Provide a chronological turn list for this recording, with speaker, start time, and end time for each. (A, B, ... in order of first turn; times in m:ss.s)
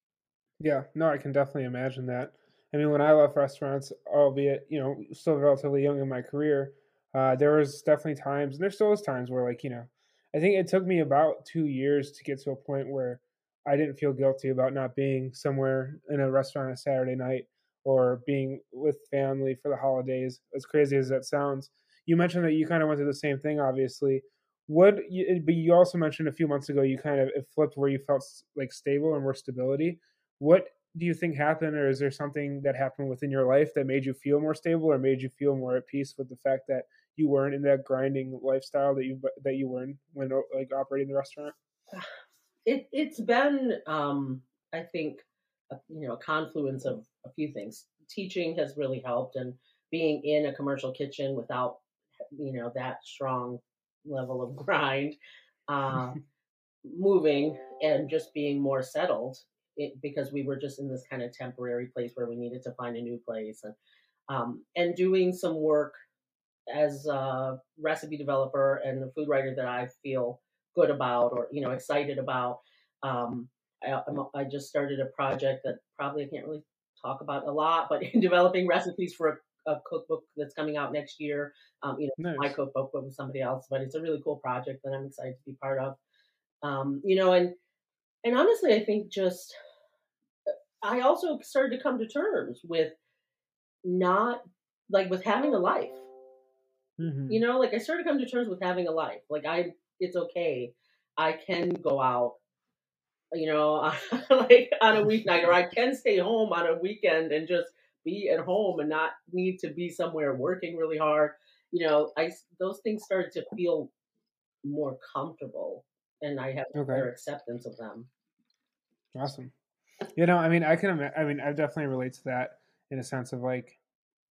0:00.6-0:41.5 A
0:42.6-0:51.8 B
0:52.3-0:55.2 B
0:55.7-0:56.2 B
0:56.8-1:03.7 B
1:04.3-1:05.9 B
1:06.7-1:26.0 B
1:22.2-1:22.6 A
1:26.6-1:27.5 B
1:28.2-1:29.6 B
1:30.5-1:32.9 B
1:33.8-1:36.1 B
1:37.0-1:37.4 A
1:37.3-1:42.4 B
1:43.3-1:53.9 B
1:54.6-1:58.1 B
1:56.7-1:57.1 A
1:59.1-1:59.5 A
2:00.1-2:03.8 A